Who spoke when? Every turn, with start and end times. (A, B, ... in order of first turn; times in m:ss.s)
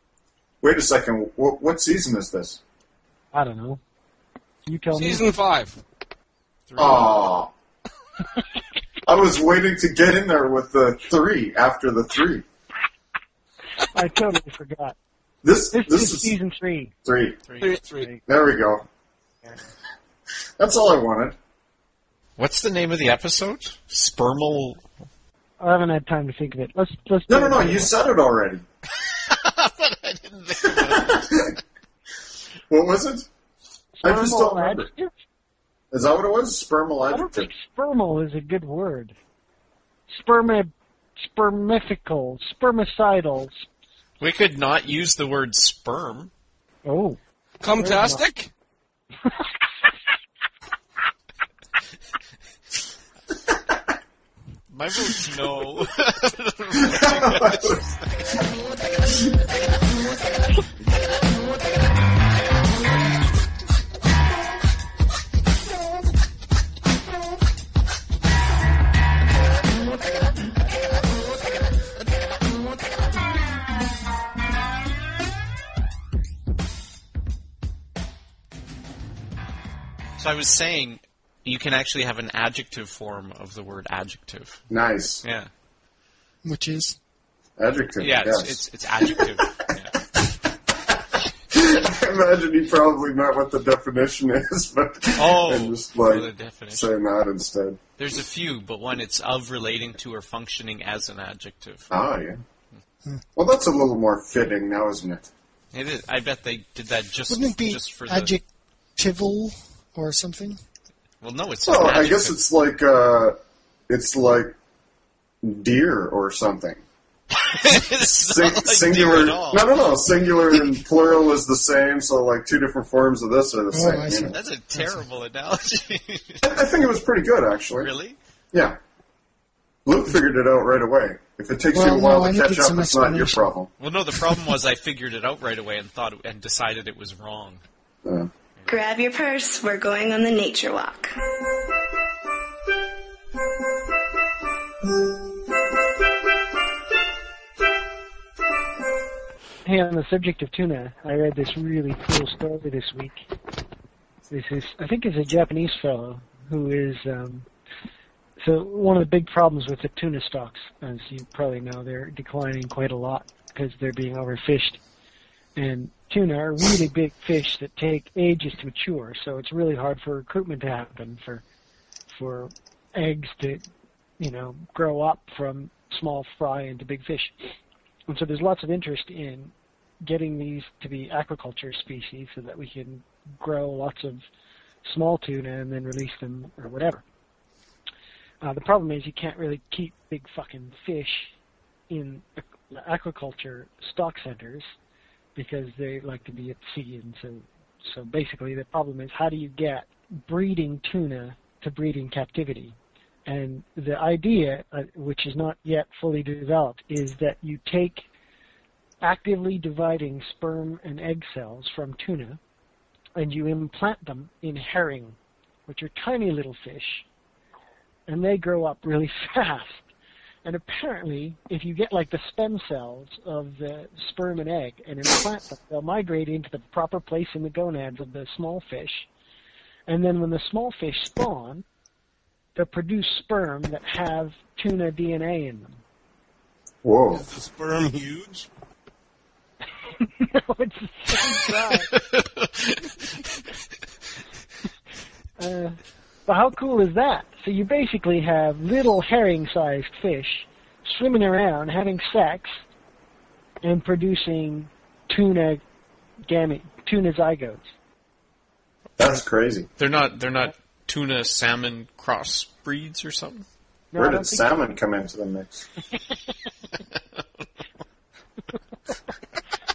0:00.6-0:02.6 A
0:03.3-0:03.8 B
0:04.7-0:05.3 B
0:04.9-0:05.8 C
0:06.7-0:07.2 D
0:06.8-0:07.5 A
0:09.1-0:12.4 A
0:13.9-0:15.0 B
0:15.4-0:16.3 A
0:15.7-0:16.9 B
0:17.0-0:17.4 A
0:17.5-0:17.8 D
0:17.6-0:18.1 C
0:18.3-0:18.8 A
0:20.6-0:21.4 A
0:22.4-0:24.8 D
0:25.6-0:27.9 B
0:27.3-0:28.6 A
0:29.2-0:31.4 D
0:30.7-0:31.6 A
0:32.7-0:33.3 A
0:34.0-0:35.1 B
0:34.0-0:34.9 A
0:35.9-0:37.5 A
0:37.1-0:39.2 B
0:40.1-0:43.7 B
0:44.2-0:46.3 D
0:46.8-0:47.2 B
0:47.6-0:48.5 C
0:47.8-0:48.2 B
0:54.7-0:58.4 D
0:56.8-0:57.8 A
1:20.2-1:24.6 D
1:24.7-1:25.2 A
1:25.2-1:25.5 D
1:26.4-1:27.0 E
1:27.6-1:29.4 A
1:28.0-1:30.0 D
1:31.5-1:37.8 A
1:35.2-1:36.9 D
1:38.0-1:41.9 D
1:41.9-1:42.4 A
1:43.4-1:45.3 A
1:45.7-1:48.4 D
1:47.3-1:48.4 E
1:49.0-1:50.6 E
1:51.2-1:52.4 D
1:51.7-1:53.4 A
1:53.9-1:54.6 A
1:55.4-1:56.8 A
1:57.4-1:59.7 D
1:58.2-2:04.3 A
2:03.7-2:04.9 E
2:04.3-2:06.5 D
2:06.4-2:07.9 A
2:07.8-2:08.2 D
2:08.5-2:08.8 A
2:09.9-2:13.7 A
2:11.7-2:13.5 E
2:13.8-2:17.6 D
2:18.7-2:21.1 F
2:29.6-2:33.2 B
2:34.3-2:37.5 B
2:38.4-2:44.8 B
2:45.6-2:51.4 B
2:52.1-2:53.6 B
2:54.2-2:57.4 B
2:58.1-3:04.2 B
3:04.8-3:07.0 B
3:08.4-3:11.3 B
3:11.9-3:14.7 B
3:15.4-3:28.1 B
3:29.0-3:32.4 B
3:33.2-3:35.2 B
3:35.7-3:37.1 B
3:38.1-3:39.9 B
3:40.4-3:49.1 B
3:49.9-3:51.6 B
3:52.6-3:55.8 B
3:56.8-3:57.2 A
3:57.1-3:58.5 C
3:59.9-4:01.9 B
4:01.9-4:03.0 D
4:05.4-4:12.6 B
4:13.6-4:15.6 B
4:16.3-4:17.7 B
4:19.0-4:19.7 A
4:19.8-4:23.5 D
4:23.9-4:24.5 B
4:24.0-4:25.7 A
4:26.8-4:27.4 D